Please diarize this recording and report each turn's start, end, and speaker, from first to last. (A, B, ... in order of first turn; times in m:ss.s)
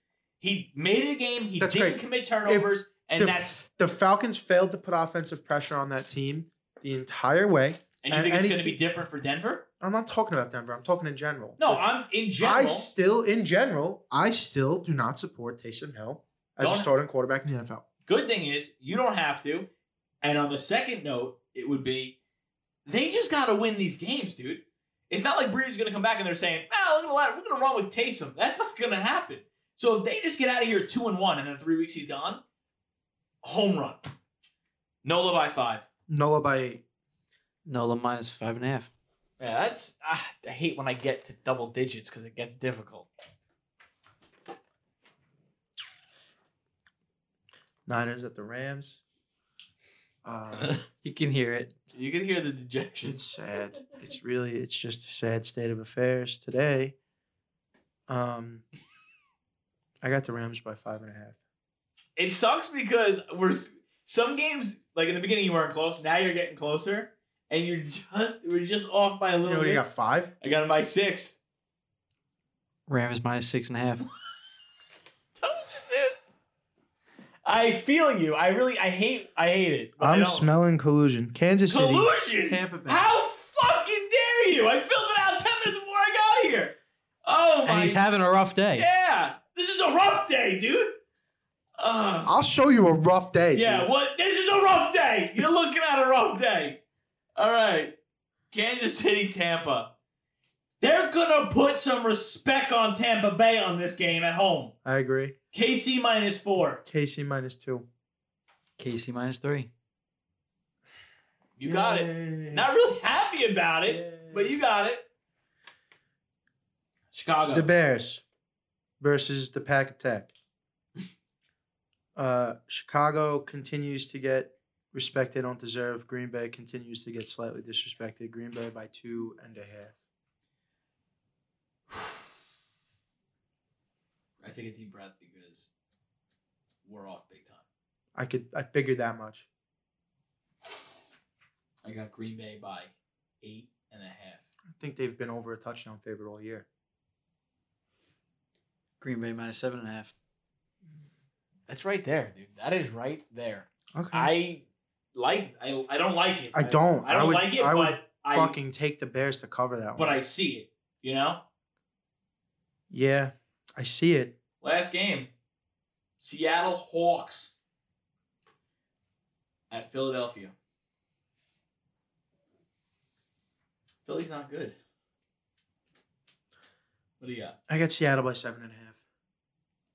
0:00.4-0:03.6 A
0:01.6-0:08.8 B
0:08.0-0:09.7 A
0:09.8-0:17.8 B
0:11.6-0:12.9 A
0:16.6-0:16.9 A
0:18.1-0:19.7 A
0:20.2-0:22.2 A
0:22.9-0:32.4 A
0:33.4-0:34.0 A
0:35.0-0:35.8 A
0:36.1-0:36.8 B
0:37.7-0:38.9 C
0:39.4-0:43.1 A
0:47.9-0:49.0 B
0:50.2-0:50.8 B
0:50.6-0:50.8 A
0:51.0-0:51.8 C
0:51.9-0:53.2 A
0:53.0-0:57.0 B
0:58.1-0:58.6 B
1:00.0-1:01.4 B
1:02.2-1:09.8 A
1:09.4-1:10.3 B
1:10.4-1:11.4 A
1:12.9-1:14.0 C
1:15.4-1:16.2 A
1:17.4-1:20.5 A
1:20.0-1:23.0 B
1:21.7-1:26.8 A
1:27.3-1:28.0 A
1:27.7-1:28.9 C
1:28.8-1:31.0 A
1:31.8-1:32.4 A
1:32.2-1:33.9 B
1:33.5-1:36.8 A
1:37.4-1:38.0 A
1:38.5-1:39.9 A
1:40.8-1:44.7 A
1:44.8-1:45.4 B
1:45.5-1:46.8 A
1:46.8-1:47.9 B
1:48.8-1:49.7 C
1:51.6-1:55.1 A
1:51.6-1:52.7 B
1:53.9-1:54.5 B
1:57.1-1:57.7 A
1:57.5-1:58.2 B
1:59.0-2:00.3 B
2:02.2-2:10.0 B
2:14.4-2:15.7 A
2:16.9-2:17.6 A
2:18.2-2:19.5 B
2:21.8-2:24.4 A
2:24.8-2:26.7 B
2:29.0-2:30.1 C
2:31.7-2:38.6 A
2:33.9-2:34.3 B
2:36.5-2:40.2 B
2:40.0-2:41.4 A
2:42.9-2:44.4 B
2:44.6-2:45.3 A
2:46.2-2:47.5 A
2:49.7-2:50.5 A
2:54.1-2:54.8 A
2:57.2-2:57.6 A
2:57.7-2:59.0 B